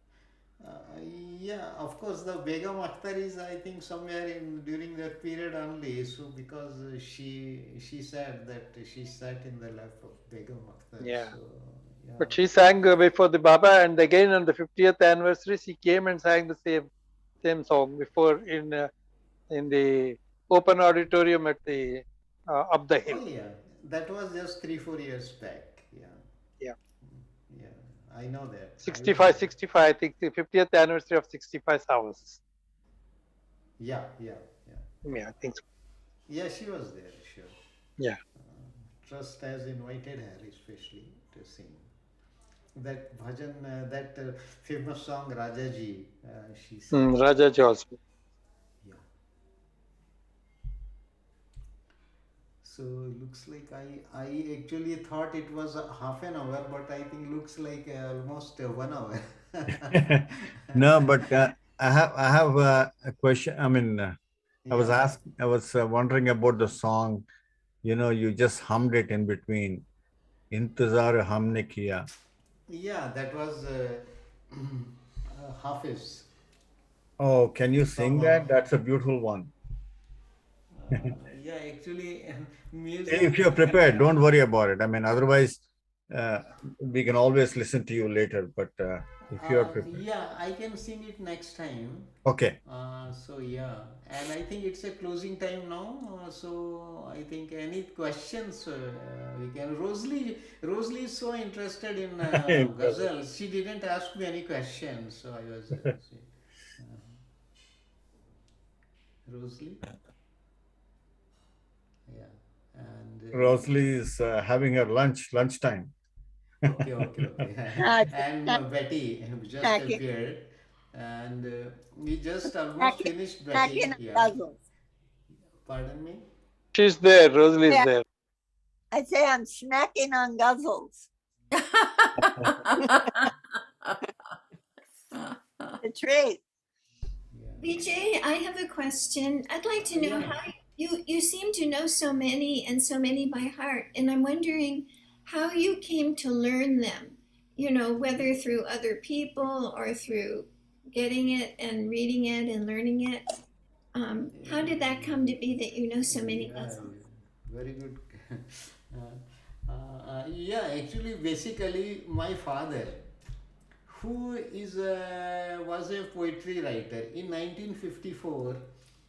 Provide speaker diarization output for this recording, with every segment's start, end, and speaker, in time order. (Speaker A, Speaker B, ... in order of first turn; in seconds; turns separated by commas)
Speaker A: 0.6-12.4, Speaker B: 11.0-11.3, Speaker B: 12.2-16.9, Speaker B: 17.4-18.9, Speaker B: 19.5-23.2, Speaker A: 23.0-26.2, Speaker A: 27.1-29.5, Speaker B: 28.8-32.4, Speaker A: 33.8-34.8, Speaker B: 35.0-35.6, Speaker A: 36.3-37.5, Speaker A: 38.4-41.9, Speaker A: 42.8-47.1, Speaker B: 46.9-48.0, Speaker A: 52.6-60.6, Speaker C: 59.9-60.2, Speaker C: 60.8-64.2, Speaker A: 64.7-65.2, Speaker C: 64.7-67.2, Speaker C: 67.8-69.8, Speaker C: 70.5-72.1, Speaker A: 72.7-76.3, Speaker C: 77.2-79.5, Speaker A: 78.0-78.6, Speaker A: 80.7-84.1, Speaker C: 83.1-90.0, Speaker A: 89.3-92.1, Speaker C: 92.3-92.6, Speaker A: 92.7-107.2, Speaker C: 102.2-103.1, Speaker A: 109.3-109.8, Speaker A: 112.1-113.7, Speaker C: 113.3-115.9, Speaker A: 116.7-124.4, Speaker D: 117.8-118.6, Speaker D: 119.6-120.0, Speaker D: 122.8-124.6, Speaker A: 125.7-126.2, Speaker B: 126.7-128.0, Speaker D: 127.6-127.9, Speaker D: 128.9-131.1, Speaker D: 135.8-136.4, Speaker A: 137.3-137.7, Speaker E: 137.6-153.4, Speaker A: 139.9-140.4, Speaker E: 153.9-156.9, Speaker A: 154.4-155.4, Speaker A: 156.0-163.1, Speaker A: 163.9-168.6